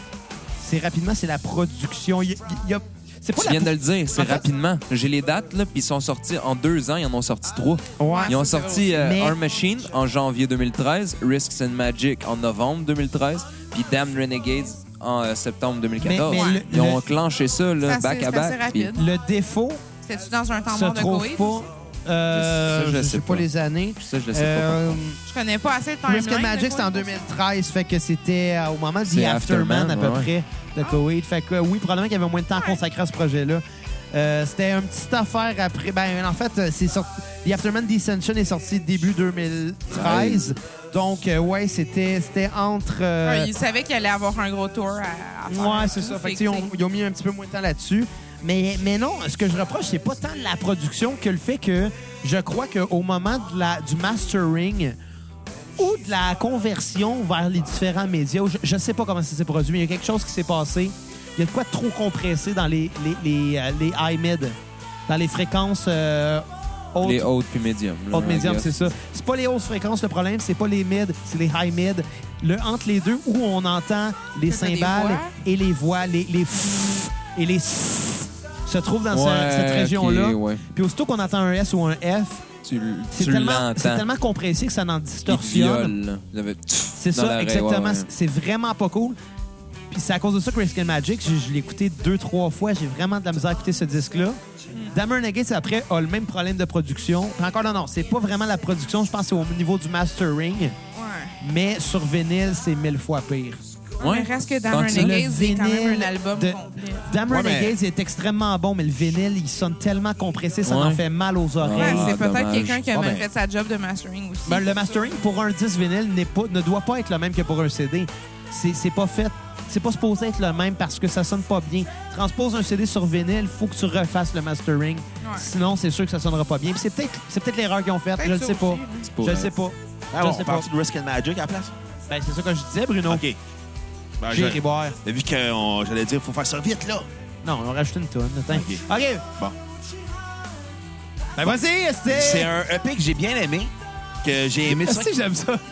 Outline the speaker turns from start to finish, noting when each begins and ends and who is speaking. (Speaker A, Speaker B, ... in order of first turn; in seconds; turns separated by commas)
Speaker A: 0.6-4.5, Speaker B: 3.4-18.9, Speaker A: 8.0-8.4, Speaker C: 8.0-8.9, Speaker A: 8.9-9.4, Speaker A: 16.0-17.1, Speaker C: 16.3-16.6, Speaker C: 17.8-19.0, Speaker A: 18.9-19.8, Speaker C: 20.0-21.7, Speaker A: 20.7-25.2, Speaker B: 22.3-23.5, Speaker B: 24.0-25.0, Speaker C: 25.2-27.2, Speaker A: 26.0-43.5, Speaker B: 29.1-30.3, Speaker C: 32.5-32.8, Speaker B: 39.9-40.4, Speaker C: 43.2-46.7, Speaker A: 45.5-55.0, Speaker A: 55.8-64.6, Speaker A: 65.1-67.3, Speaker B: 67.0-68.8, Speaker A: 68.1-82.4, Speaker C: 74.5-75.3, Speaker B: 79.1-80.6, Speaker B: 82.6-84.0, Speaker A: 83.1-85.9, Speaker B: 85.3-88.1, Speaker A: 87.0-89.2, Speaker A: 89.9-100.8, Speaker C: 100.9-101.4, Speaker A: 101.4-103.6, Speaker B: 104.0-105.2, Speaker C: 104.0-107.1, Speaker A: 104.8-112.1, Speaker D: 107.3-107.7, Speaker B: 110.6-111.0, Speaker B: 111.6-112.8, Speaker C: 111.8-115.0, Speaker D: 113.0-113.2, Speaker A: 114.5-130.7, Speaker C: 125.2-125.5, Speaker C: 128.2-129.1, Speaker B: 129.0-129.5, Speaker D: 130.1-131.7, Speaker A: 132.1-133.2, Speaker D: 133.1-133.4, Speaker D: 134.2-137.1, Speaker A: 134.3-135.0, Speaker A: 137.4-139.2, Speaker D: 138.5-138.8, Speaker A: 141.3-142.5, Speaker D: 142.1-143.7, Speaker D: 144.2-145.1, Speaker A: 144.6-145.6